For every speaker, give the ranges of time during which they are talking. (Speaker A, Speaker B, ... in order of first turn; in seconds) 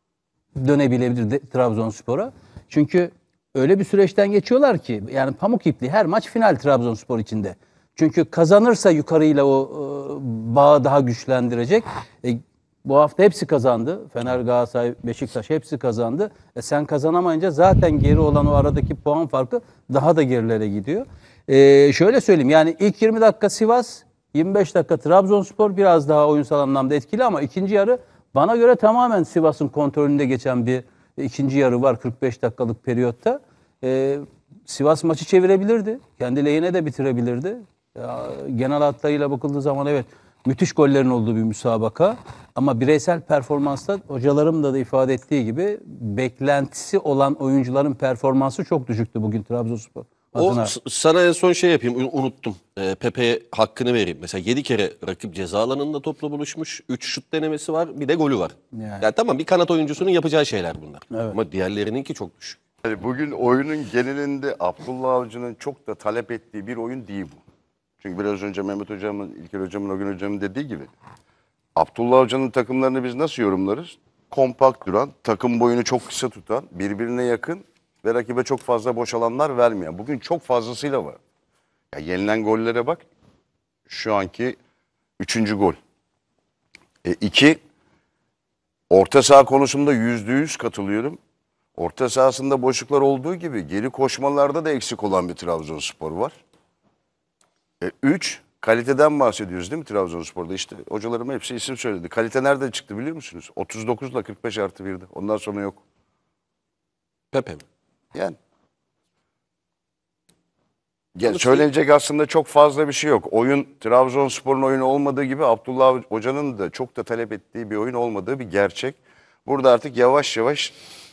Speaker A: 0.6-50.7, 58.7-59.0, 61.1-61.4
Speaker B: 50.4-62.6, 107.3-107.6, 111.2-111.6
Speaker C: 62.8-67.4, 68.0-70.9, 71.8-81.2, 81.9-83.0, 83.9-84.6, 85.2-85.8, 87.0-87.6, 88.9-91.2, 91.8-96.3, 97.8-105.8, 111.2-120.8